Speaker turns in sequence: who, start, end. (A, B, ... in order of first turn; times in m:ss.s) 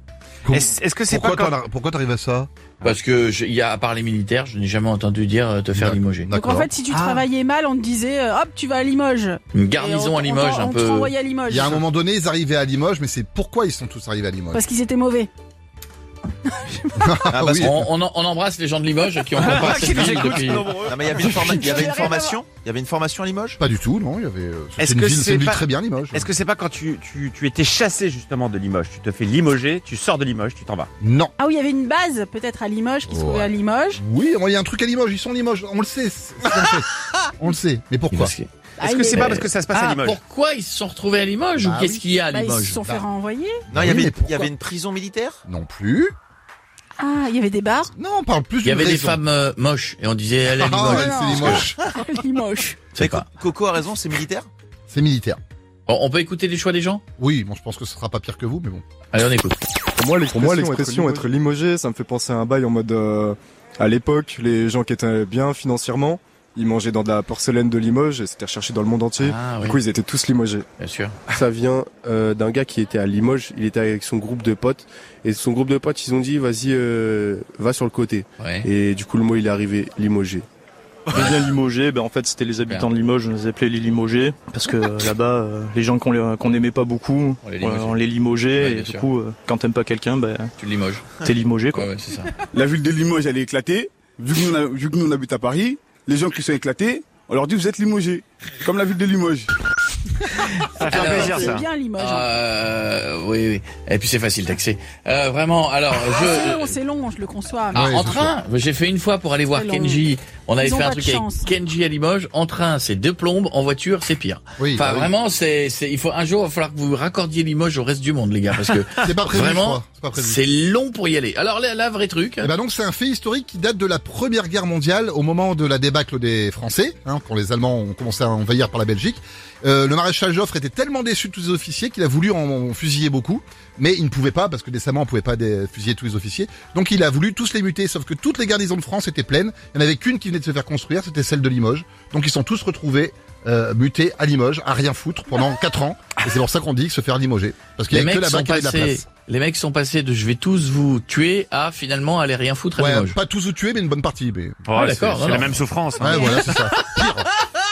0:00.4-0:02.5 A
0:00.5-0:01.5 B
0:02.8-0:06.3 C
0:05.7-0:07.2 A
0:06.3-0:11.8 D
0:09.5-0:11.1 C
0:11.5-0:14.6 A
0:14.5-0:15.3 D
0:17.0-0:17.9 A
0:17.3-0:17.7 B
0:17.6-0:21.9 C
0:19.4-0:23.6 B
0:21.2-0:22.4 D
0:23.6-0:26.3 A
0:24.8-0:30.9 B
0:31.0-0:31.3 A
0:31.4-0:34.0 D
0:33.1-0:38.3 A
0:38.1-0:38.5 C
0:38.8-0:39.5 D
0:38.8-0:40.2 B
0:39.2-0:42.8 C
0:41.6-0:42.1 A
0:42.3-0:43.7 D
0:42.8-0:43.1 A
0:43.7-0:44.5 A
0:43.7-0:45.4 B
0:45.5-0:46.1 A
0:47.0-0:47.9 D
0:47.9-0:49.2 A
0:48.6-0:51.7 C
0:50.5-0:51.8 A
0:50.9-0:52.9 D
0:52.9-0:53.2 C
0:53.0-0:54.5 B
0:54.9-0:55.4 A
0:55.9-0:57.0 C
0:57.2-0:58.8 A
0:59.1-0:59.6 C
1:00.0-1:10.7 E
1:00.3-1:01.3 F
1:09.2-1:09.8 C
1:10.8-1:11.1 C
1:11.3-1:20.4 F
1:18.4-1:18.7 C
1:21.1-1:30.5 G
1:27.4-1:28.0 C
1:28.6-1:29.1 C
1:30.6-1:31.1 C
1:31.2-1:31.9 G
1:31.7-1:32.4 C
1:32.5-1:39.5 H
1:40.8-1:41.7 B
1:40.8-1:42.3 D
1:40.8-1:46.8 C
1:46.1-1:47.9 D
1:47.7-2:02.5 C
1:47.7-1:48.3 A
1:49.5-1:50.0 D
1:50.6-1:51.5 D
1:54.6-1:55.1 A
1:59.0-2:00.4 A
2:02.4-2:29.1 A
2:27.9-2:33.2 C
2:32.8-2:34.6 A
2:34.6-2:36.7 B
2:34.7-2:35.6 C
2:36.0-2:37.3 A
2:36.1-2:36.4 D